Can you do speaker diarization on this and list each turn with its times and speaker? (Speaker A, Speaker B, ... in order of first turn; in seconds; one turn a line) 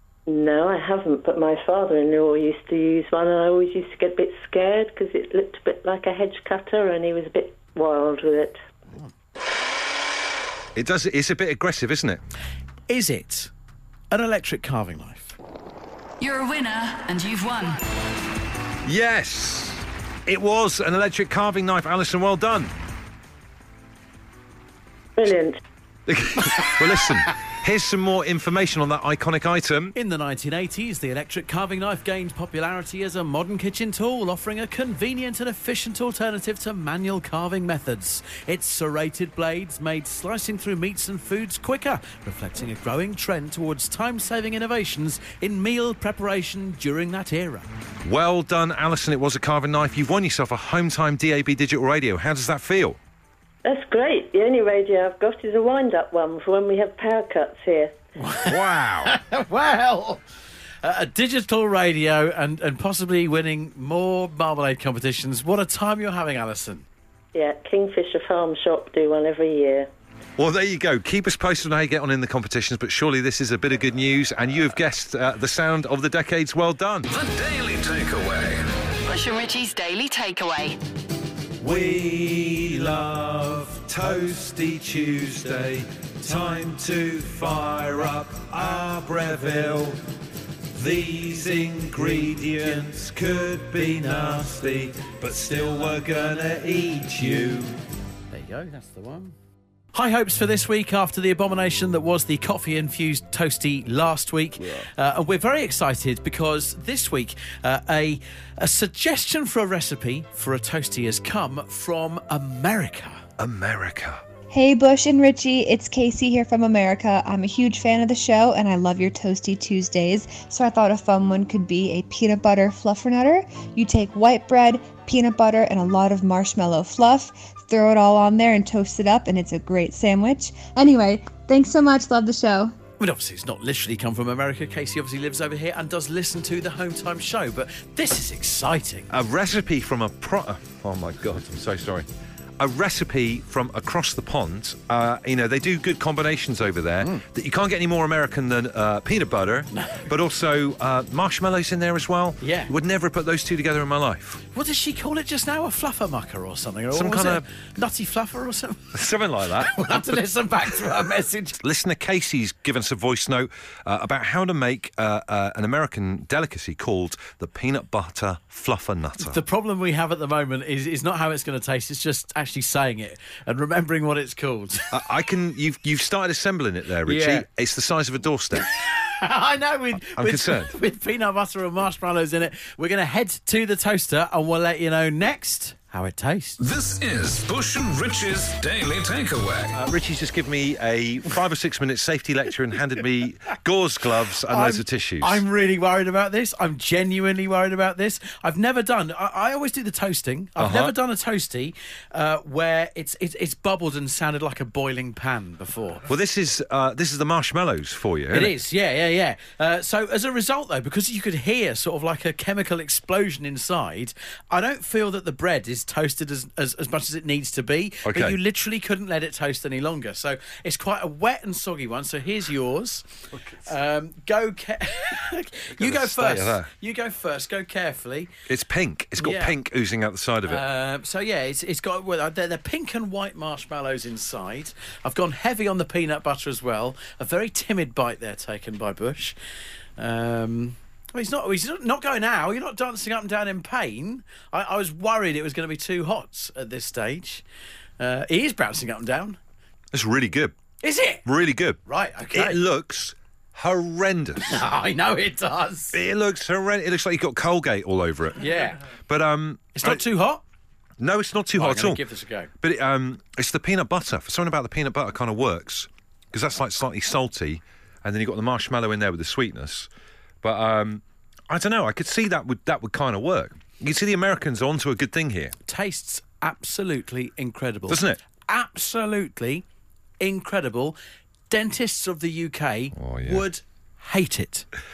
Speaker A: 0.3-8.6
Speaker B: 10.8-12.2
Speaker C: 12.9-13.5
Speaker C: 14.1-15.4
Speaker D: 16.2-17.8
Speaker B: 18.9-22.7
Speaker A: 25.2-25.6
Speaker B: 26.1-29.9
Speaker C: 29.9-47.7
Speaker B: 48.0-53.0
Speaker A: 53.6-58.0
Speaker C: 58.2-60.2
Speaker B: 58.5-59.1
Speaker C: 60.8-66.9
Speaker A: 67.3-69.9
Speaker B: 70.4-77.1
Speaker E: 77.1-78.7
Speaker D: 79.0-80.8
Speaker B: 81.6-90.0
Speaker B: 90.7-97.8
Speaker C: 98.3-99.3
Speaker C: 99.9-113.2
Speaker B: 113.4-114.2
Speaker F: 114.5-132.7
Speaker C: 133.0-139.1
Speaker B: 139.1-142.1
Speaker B: 142.6-154.4
Speaker C: 149.7-150.1
Speaker C: 152.4-152.7
Speaker C: 154.5-159.0
Speaker B: 156.9-157.4
Speaker B: 158.9-159.8
Speaker C: 159.6-161.6
Speaker B: 161.6-169.4
Speaker C: 169.2-174.9
Speaker B: 174.9-178.7
Speaker C: 177.1-177.4
Speaker C: 178.8-186.6
Speaker B: 180.2-180.7
Speaker E: 186.6-189.8
Speaker B: 189.7-195.4
Speaker C: 194.5-206.1
Speaker B: 200.6-200.9
Speaker B: 206.1-208.6
Speaker C: 208.3-223.1
Speaker B: 218.1-218.4
Speaker C: 223.6-228.3
Speaker B: 225.8-226.7
Speaker B: 228.5-230.7
Speaker C: 229.2-229.6
Speaker C: 230.5-239.4
Speaker C: 240.0-247.4
Speaker C: 248.0-249.4
Speaker B: 249.9-250.6
Speaker C: 250.8-251.2
Speaker B: 251.2-251.8
Speaker C: 251.9-252.6
Speaker B: 252.3-254.6
Speaker C: 254.4-256.0
Speaker B: 255.9-258.5
Speaker C: 258.4-258.8
Speaker B: 259.1-260.0
Speaker C: 259.8-260.4
Speaker B: 261.0-262.0
Speaker C: 261.6-262.5
Speaker B: 262.6-269.9
Speaker B: 270.4-275.6
Speaker C: 275.7-279.6
Speaker B: 277.9-278.2
Speaker C: 280.2-281.0
Speaker C: 281.5-284.7
Speaker B: 282.9-283.4